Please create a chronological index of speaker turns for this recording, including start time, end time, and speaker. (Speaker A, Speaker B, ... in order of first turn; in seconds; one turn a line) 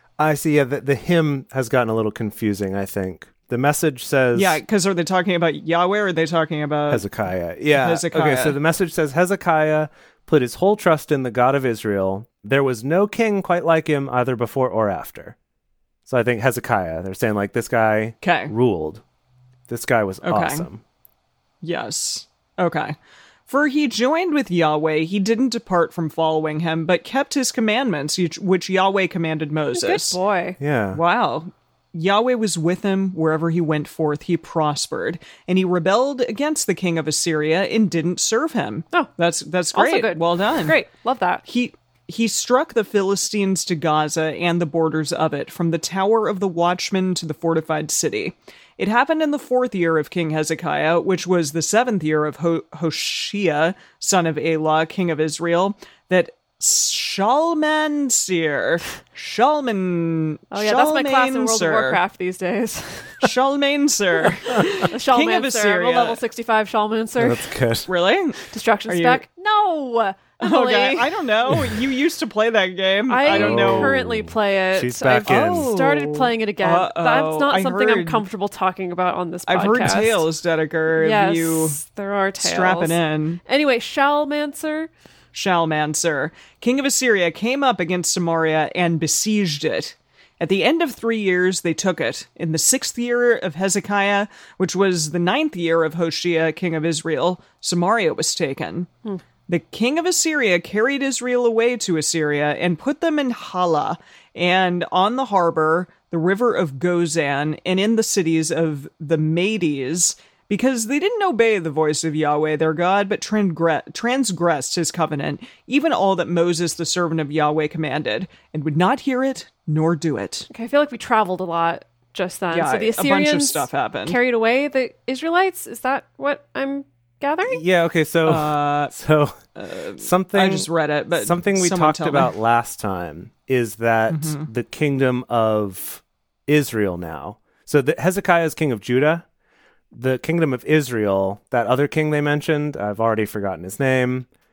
Speaker A: 0.2-4.6
Speaker B: 4.3-7.0
Speaker A: 6.9-15.4
Speaker B: 7.8-8.6
Speaker A: 16.1-19.0
Speaker B: 18.2-18.5
Speaker A: 19.7-20.8
Speaker B: 20.2-20.7
Speaker B: 21.6-23.0
Speaker B: 23.5-30.2
Speaker C: 29.7-30.6
Speaker A: 30.6-31.0
Speaker B: 30.9-40.8
Speaker C: 39.7-41.4
Speaker B: 41.5-62.0
Speaker C: 60.5-63.2
Speaker B: 63.2-66.2
Speaker C: 64.8-67.5
Speaker A: 67.2-67.9
Speaker B: 67.9-69.2
Speaker C: 68.5-71.1
Speaker B: 70.4-74.0
Speaker C: 73.1-80.2
Speaker A: 73.3-75.7
Speaker B: 75.2-78.2
Speaker B: 79.5-81.8
Speaker C: 81.0-84.9
Speaker B: 82.4-83.4
Speaker B: 85.3-98.9
Speaker B: 99.5-120.5
Speaker C: 120.5-127.6
Speaker B: 122.5-124.2
Speaker A: 127.5-129.4
Speaker B: 128.2-128.9
Speaker B: 129.6-132.3
Speaker A: 130.0-139.2
Speaker B: 134.1-134.5
Speaker A: 139.9-144.3